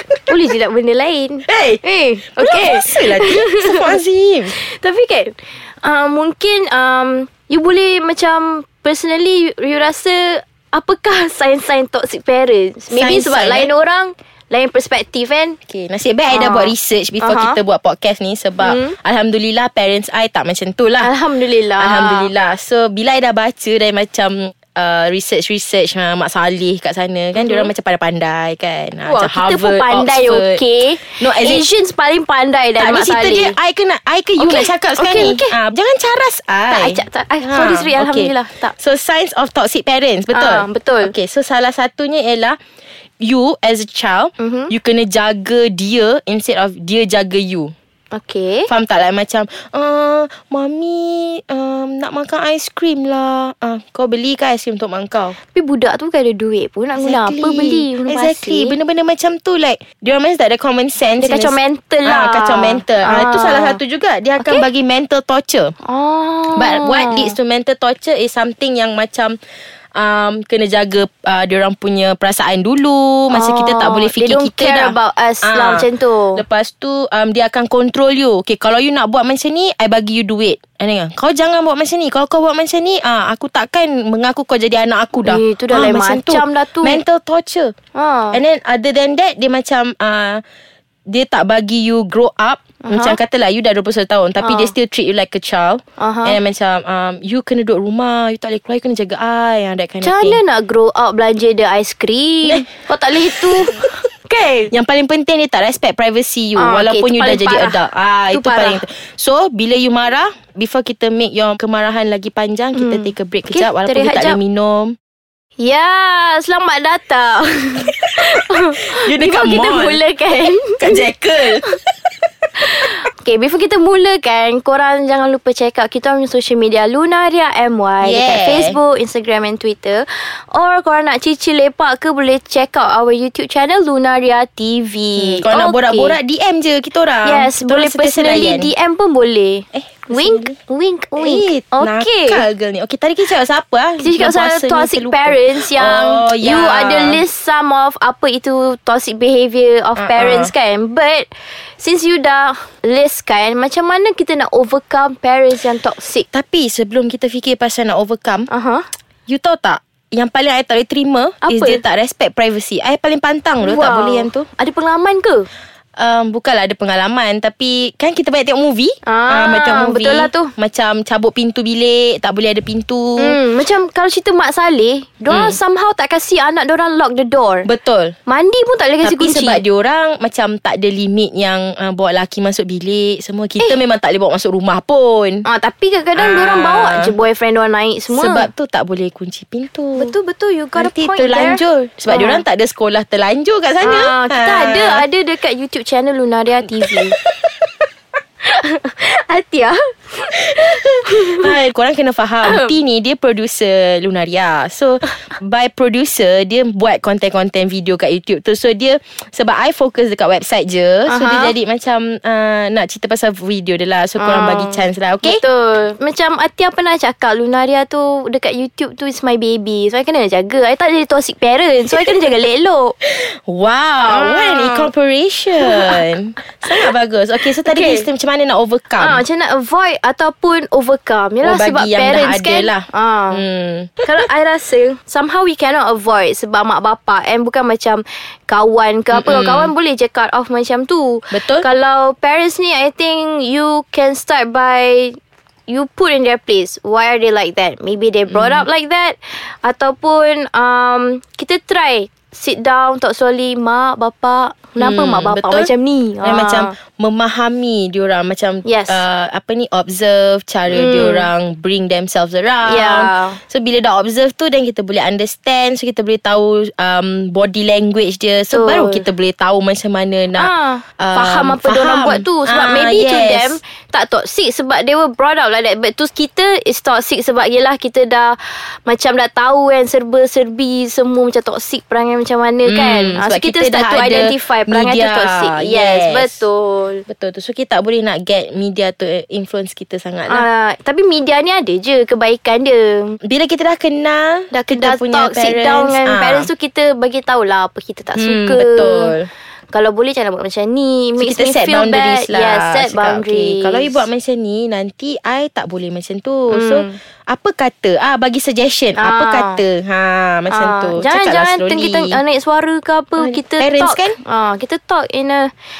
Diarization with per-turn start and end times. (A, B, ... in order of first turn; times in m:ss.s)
0:00.3-0:04.0 A
0:01.5-0:04.6 B
0:04.6-0:15.6 A
0:12.9-0:13.7 B
0:15.7-0:21.1 B
0:16.3-0:17.6 A
0:18.6-0:19.0 A
0:21.0-0:22.3 A
0:21.8-0:30.6 B
0:27.4-0:27.7 A
0:29.0-0:33.6 A
0:31.2-0:31.6 B
0:32.8-0:42.6 B
0:34.4-0:35.6 A
0:36.7-0:38.7 A
0:40.3-0:41.1 A
0:43.2-0:47.7 B
0:44.4-0:44.7 A
0:48.1-0:48.7 A
0:48.7-0:55.4 B
0:55.5-0:58.8 A
0:57.0-1:05.7 B
1:01.2-1:03.8 A
1:04.4-1:04.7 A
1:05.8-1:07.4 A
1:06.6-1:09.4 B
1:10.0-1:27.7 B
1:13.3-1:16.4 A
1:25.2-1:27.0 A
1:28.0-1:28.4 A
1:28.3-1:30.4 B
1:31.1-1:40.4 B
1:32.8-1:33.2 A
1:34.4-1:34.7 A
1:36.0-1:36.4 A
1:40.0-1:44.7 A
1:43.2-1:44.0 B
1:44.7-1:55.0 B
1:46.6-1:48.8 A
1:52.7-1:54.4 A
1:55.6-2:00.9 A
1:59.0-2:00.0 B
2:00.8-2:01.6 B
2:02.7-2:16.2 A
2:08.0-2:08.8 B
2:15.2-2:18.7 B
2:17.2-2:22.4 A
2:19.7-2:20.6 B
2:21.2-2:27.2 B
2:24.0-2:36.3 A
2:30.0-2:30.5 B
2:36.3-2:38.5 B
2:38.5-2:38.9 A
2:39.3-2:44.5 B
2:41.4-2:41.8 A
2:43.6-2:45.5 A
2:46.0-2:53.4 B
2:49.1-2:50.5 A
2:53.2-2:57.7 A
2:55.3-2:55.6 B
2:57.6-2:58.2 B
2:58.3-2:59.6 A
2:59.0-3:05.5 B
3:05.4-3:08.5 A
3:06.2-3:07.1 B
3:08.1-3:10.1 B
3:10.0-3:12.4 A
3:10.8-3:15.0 B
3:13.8-3:17.2 A
3:18.4-3:21.5 A
3:20.6-3:35.4 B
3:22.4-3:22.8 A
3:31.1-3:31.5 A
3:34.2-3:43.0 A
3:41.9-3:42.2 B
3:43.1-3:49.2 B
3:44.1-3:44.9 A
3:45.6-3:46.0 A
3:47.6-3:48.1 A
3:49.0-3:53.4 A
3:51.4-3:54.1 B
3:54.0-4:05.2 A
3:59.1-3:59.7 B
4:01.3-4:01.7 B
4:05.7-4:16.7 A
4:08.3-4:08.7 B
4:14.8-4:15.7 B
4:16.2-4:33.6 B
4:18.6-4:19.0 A
4:20.7-4:21.3 A
4:22.6-4:23.4 A
4:28.5-4:29.1 A
4:30.4-4:47.1 A
4:42.6-4:46.4 B
4:47.1-4:50.5 B
4:50.3-4:53.2 A
4:53.2-4:56.5 B
4:54.5-4:59.2 A
4:58.2-4:59.3 B
4:59.7-5:04.1 A
5:01.2-5:12.2 B
5:06.5-5:07.0 A
5:09.0-5:09.6 A
5:10.5-5:15.5 A
5:13.2-5:14.2 B